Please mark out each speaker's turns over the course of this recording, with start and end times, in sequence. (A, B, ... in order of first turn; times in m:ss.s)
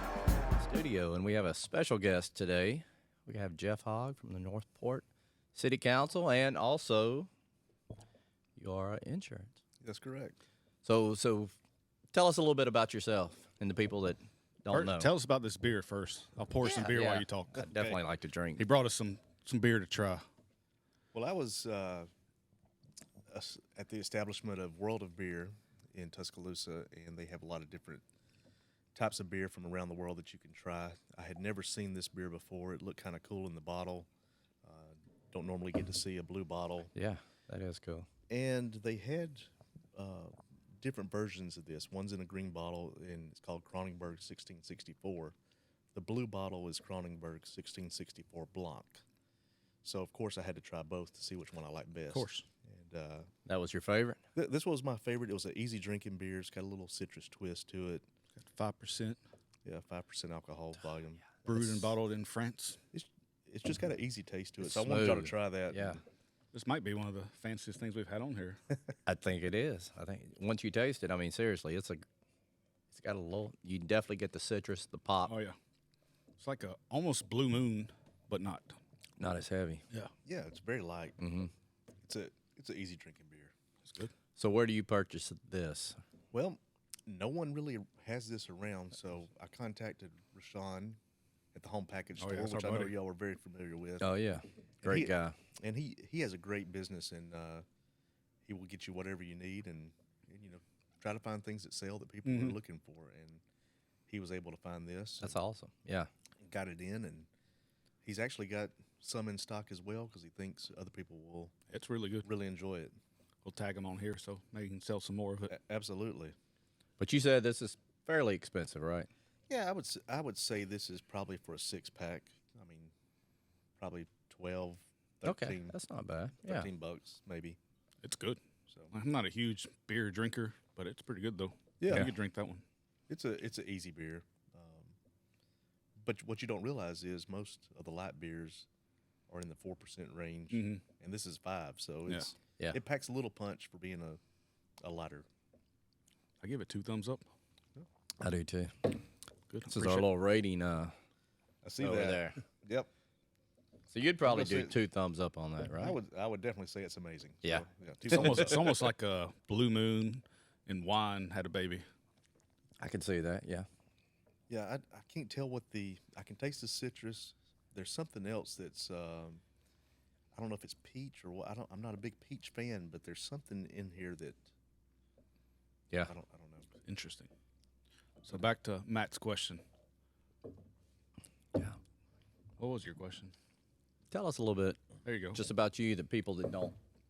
0:00.6-0:07.3 A
0:08.6-0:09.6 A
0:09.8-0:10.4 B
0:10.8-0:11.5 A
0:12.1-0:15.1 A
0:14.7-0:18.0 C
0:16.6-0:18.6 A
0:18.6-0:20.3 C
0:21.1-0:22.1 B
0:23.3-0:28.0 B
0:28.9-0:34.1 B
0:34.6-0:36.9 B
0:36.9-0:38.1 A
0:38.3-0:45.3 B
0:45.9-0:49.0 B
0:49.8-0:53.3 B
0:52.1-0:52.4 C
0:53.4-0:54.2 A
0:54.3-0:58.1 B
0:58.4-0:59.2 C
0:59.6-1:01.9 B
1:01.4-1:02.8 C
1:02.9-1:06.0 B
1:04.6-1:06.0 A
1:06.5-1:08.6 C
1:09.1-1:12.1 A
1:12.9-1:15.3 A
1:15.2-1:15.6 C
1:16.4-1:18.8 C
1:19.2-1:19.8 A
1:20.2-1:21.2 B
1:21.2-1:21.5 A
1:22.0-1:23.5 B
1:23.8-1:24.1 C
1:24.4-1:26.0 A
1:26.3-1:31.0 B
1:31.5-1:34.2 B
1:32.2-1:33.0 C
1:34.0-1:35.4 A
1:34.8-1:37.6 B
1:38.4-1:43.4 B
1:42.2-1:42.6 C
1:44.1-1:45.4 B
1:45.2-1:46.1 A
1:46.4-1:47.3 B
1:48.0-1:51.6 B
1:51.7-1:52.3 C
1:52.2-1:53.0 B
1:53.4-1:55.5 C
1:55.5-1:56.4 B
1:57.0-1:59.1 A
1:59.5-2:02.9 B
2:03.8-2:05.8 B
2:05.2-2:06.7 A
2:06.4-2:07.6 B
2:08.0-2:08.4 C
2:08.7-2:08.9 B
2:08.9-2:12.6 C
2:11.8-2:12.1 B
2:13.1-2:14.9 B
2:16.0-2:18.7 B
2:19.3-2:24.2 B
2:20.5-2:20.8 C
2:24.8-2:25.2 B
2:26.4-2:27.2 C
2:28.2-2:29.0 A
2:29.5-2:30.1 C
2:29.6-2:30.9 A
2:31.6-2:32.9 B
2:31.8-2:32.4 A
2:33.9-2:36.0 A
2:34.2-2:34.8 B
2:35.7-2:38.7 B
2:37.4-2:38.2 A
2:38.0-2:41.8 C
2:42.8-2:43.7 A
2:44.5-2:49.4 B
2:50.3-2:54.5 B
2:56.0-2:56.7 B
2:56.8-2:57.3 C
2:58.2-2:59.6 C
3:02.6-3:03.3 C
3:04.1-3:06.8 A
3:05.0-3:05.4 C